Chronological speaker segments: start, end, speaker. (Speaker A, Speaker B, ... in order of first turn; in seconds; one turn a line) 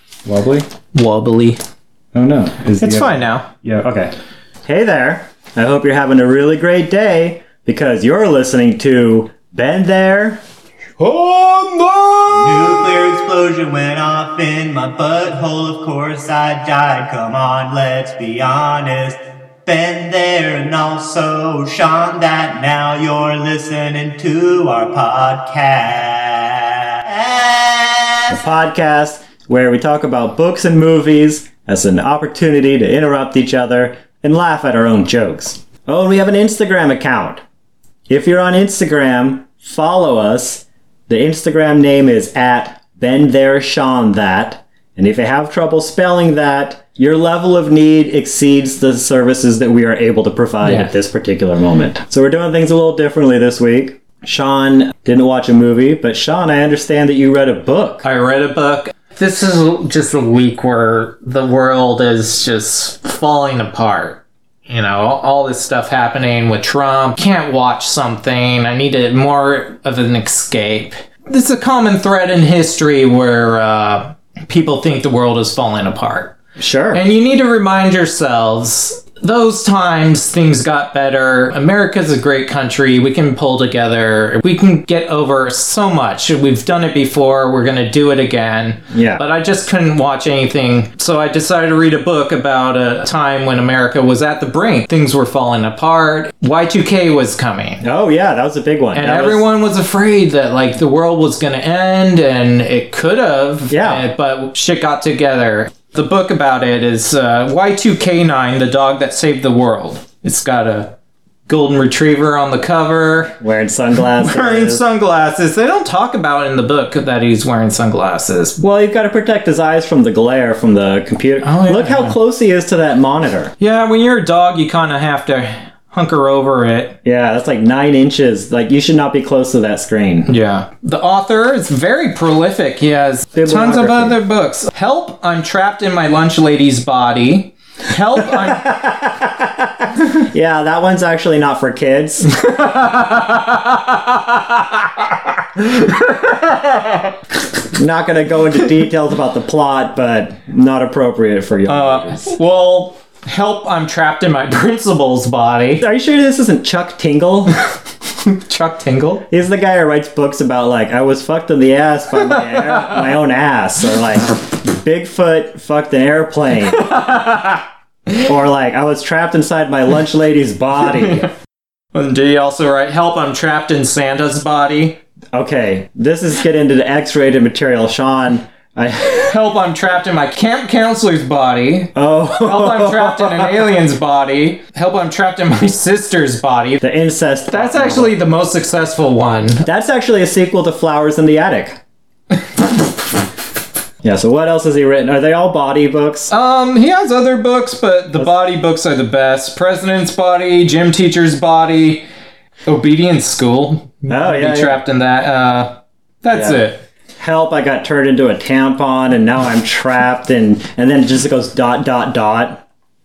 Speaker A: 0.2-0.7
Speaker B: 0.9-1.6
Speaker A: 2.1-4.1
Speaker B: 2.8-3.5
Speaker A: 4.7-10.4
Speaker B: 11.0-12.9
Speaker C: 12.3-28.3
Speaker A: 28.3-37.4
Speaker A: 38.1-58.0
Speaker B: 50.6-50.9
Speaker B: 58.0-76.3
Speaker A: 76.6-77.0
Speaker B: 76.9-97.8
Speaker A: 88.9-89.2
Speaker A: 97.8-99.4
Speaker B: 98.9-110.9
Speaker A: 103.7-104.0
Speaker B: 111.5-113.4
Speaker A: 113.4-114.8
Speaker B: 113.9-118.6
Speaker A: 118.6-123.5
Speaker B: 121.4-122.2
Speaker B: 123.6-127.0
Speaker A: 127.0-130.3
Speaker B: 130.3-138.8
Speaker A: 133.3-134.2
Speaker A: 138.2-142.3
Speaker B: 142.3-147.2
Speaker A: 147.7-152.3
Speaker B: 151.7-155.8
Speaker A: 155.8-157.6
Speaker B: 158.2-159.2
Speaker A: 159.3-166.9
Speaker B: 162.2-163.1
Speaker B: 166.7-168.3
Speaker A: 168.2-171.3
Speaker B: 170.9-171.3
Speaker B: 171.9-175.0
Speaker A: 175.3-179.3
Speaker B: 179.1-186.8
Speaker A: 181.9-183.6
Speaker A: 186.8-188.2
Speaker B: 187.5-189.7
Speaker A: 189.6-191.8
Speaker A: 194.0-196.3
Speaker B: 196.3-202.1
Speaker B: 202.7-206.8
Speaker A: 204.1-204.8
Speaker A: 206.3-206.6
Speaker A: 207.2-212.6